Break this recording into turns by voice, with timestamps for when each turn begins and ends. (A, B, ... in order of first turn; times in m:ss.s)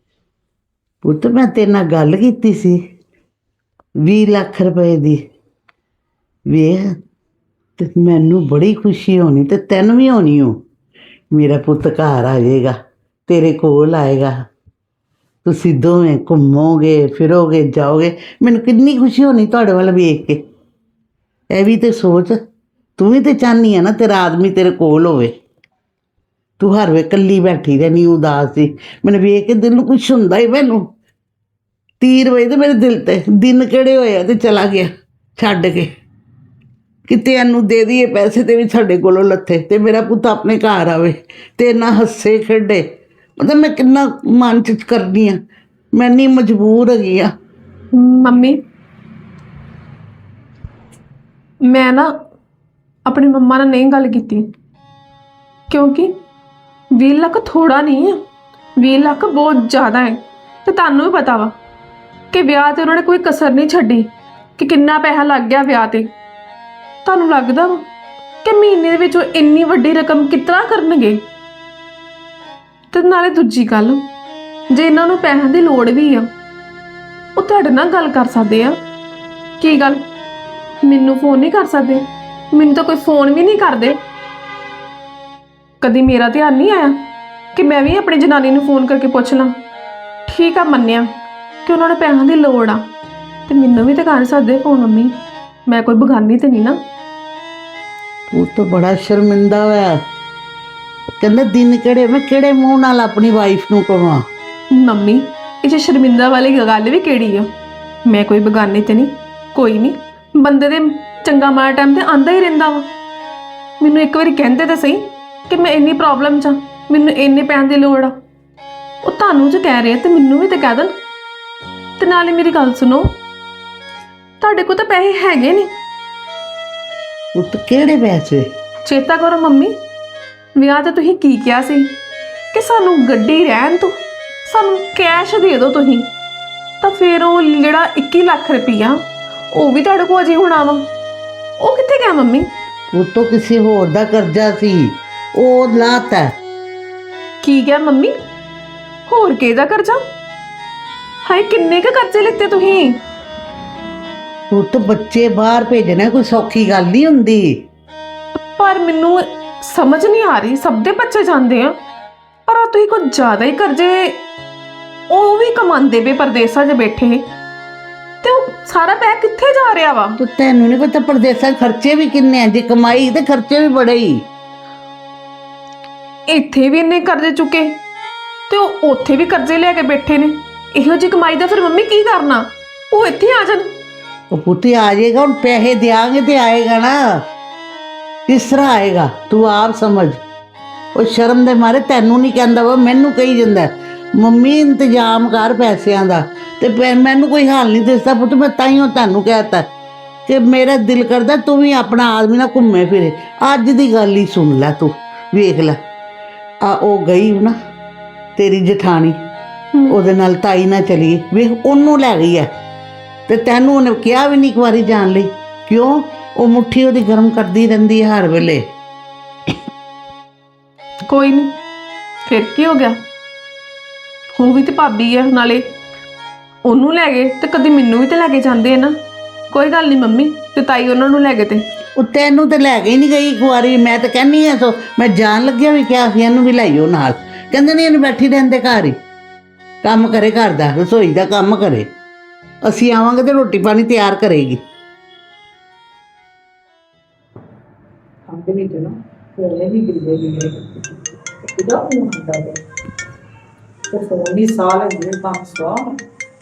0:01.0-0:02.8 A
0:04.0-0:05.2 A
0:06.5-0:07.0 A
0:07.8-0:10.6 A
0:11.3-0:12.8 A
0:13.3-0:14.4 A
0:15.4-0:20.4 A
0:21.5-0:22.4 A
0:23.0-0:25.3 A
0:26.6-0:30.9 A
0:32.0-0:35.9 A
0:37.1-0:42.9 A
0:43.4-0:45.4 A
0:45.9-0:47.3 A
0:47.9-0:48.6 B
0:51.7-0:52.2 B
0:53.1-0:54.5 B
0:55.7-0:56.1 B
0:57.0-0:58.2 B
0:58.8-1:01.6 B
1:02.3-1:06.1 B
1:07.0-1:07.8 B
1:08.4-1:11.3 B
1:12.9-1:14.1 B
1:14.7-1:16.3 B
1:17.4-1:18.8 B
1:19.6-1:20.0 B
1:20.8-1:24.0 B
1:25.8-1:27.0 B
1:27.5-1:29.6 B
1:30.3-1:31.1 B
1:31.6-1:32.8 B
1:33.5-1:35.2 B
1:35.7-1:36.8 B
1:38.3-1:40.0 A
1:41.2-1:44.3 A
1:44.8-1:47.5 B
1:48.1-1:52.9 B
1:53.8-1:58.2 B
1:59.0-2:01.0 B
2:02.0-2:03.2 B
2:04.4-2:05.7 B
2:07.4-2:08.5 A
2:08.8-2:09.8 B
2:10.6-2:11.9 B
2:12.5-2:16.1 B
2:16.8-2:20.9 B
2:21.6-2:22.5 B
2:22.9-2:26.3 A
2:27.4-2:28.1 B
2:29.1-2:30.0 B
2:31.2-2:33.0 B
2:34.5-2:37.7 A
2:38.4-2:41.8 B
2:42.5-2:44.2 B
2:45.1-2:47.3 B
2:48.2-2:50.2 B
2:50.2-2:54.3 A
2:56.3-2:57.8 B
2:58.5-3:03.7 B
3:04.3-3:07.3 A
3:08.3-3:10.2 A
3:11.0-3:19.7 A
3:20.3-3:25.8 A
3:26.6-3:27.6 A
3:28.4-3:29.2 A
3:29.9-3:32.5 A
3:33.3-3:38.7 A
3:41.1-3:41.6 B
3:42.3-3:43.0 B
3:44.4-3:45.7 B
3:46.6-3:49.0 B
3:49.5-3:51.6 B
3:52.0-3:59.0 A
3:59.8-4:01.9 A
4:02.6-4:04.6 A
4:08.3-4:10.6 C
4:11.5-4:12.6 C
4:13.9-4:16.0 C